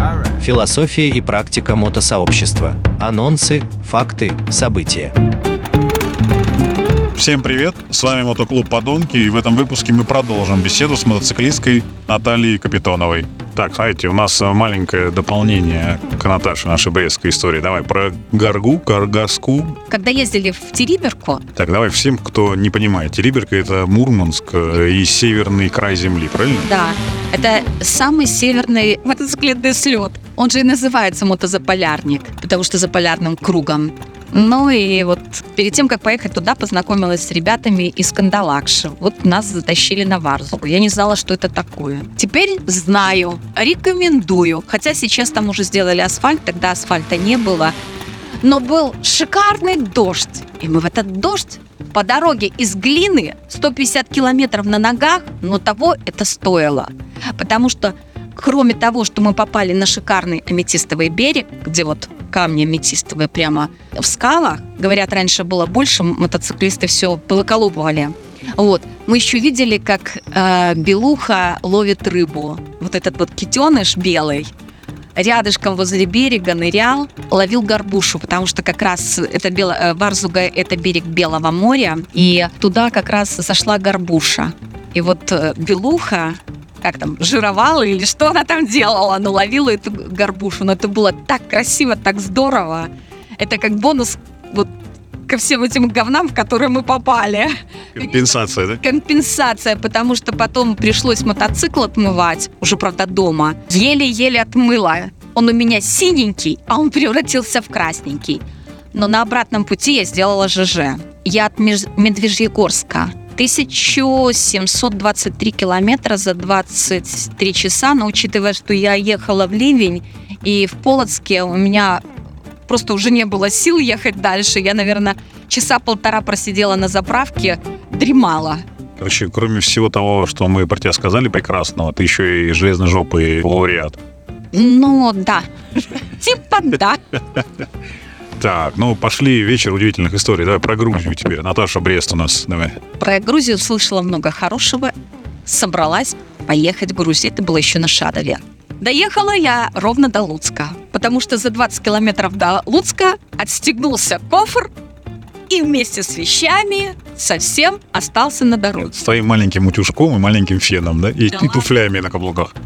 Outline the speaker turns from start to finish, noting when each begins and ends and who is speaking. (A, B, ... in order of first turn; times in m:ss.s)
0:00.4-0:05.1 A
0:07.2-0:19.8 B
0:19.9-0:21.4 C
0:21.6-0:26.7 B
0:26.6-0:47.8 C
0:48.4-1:14.5 C
1:15.2-1:34.7 C
1:35.3-1:38.2 C
1:38.0-1:38.8 B
1:38.8-2:02.0 C
2:02.7-2:08.6 C
2:09.0-2:14.0 B
2:14.5-2:17.0 C
2:18.4-2:22.8 B
2:23.0-2:24.9 C
2:25.5-2:34.7 C
2:35.5-2:38.9 C
2:38.8-2:42.5 B
2:41.3-2:41.7 C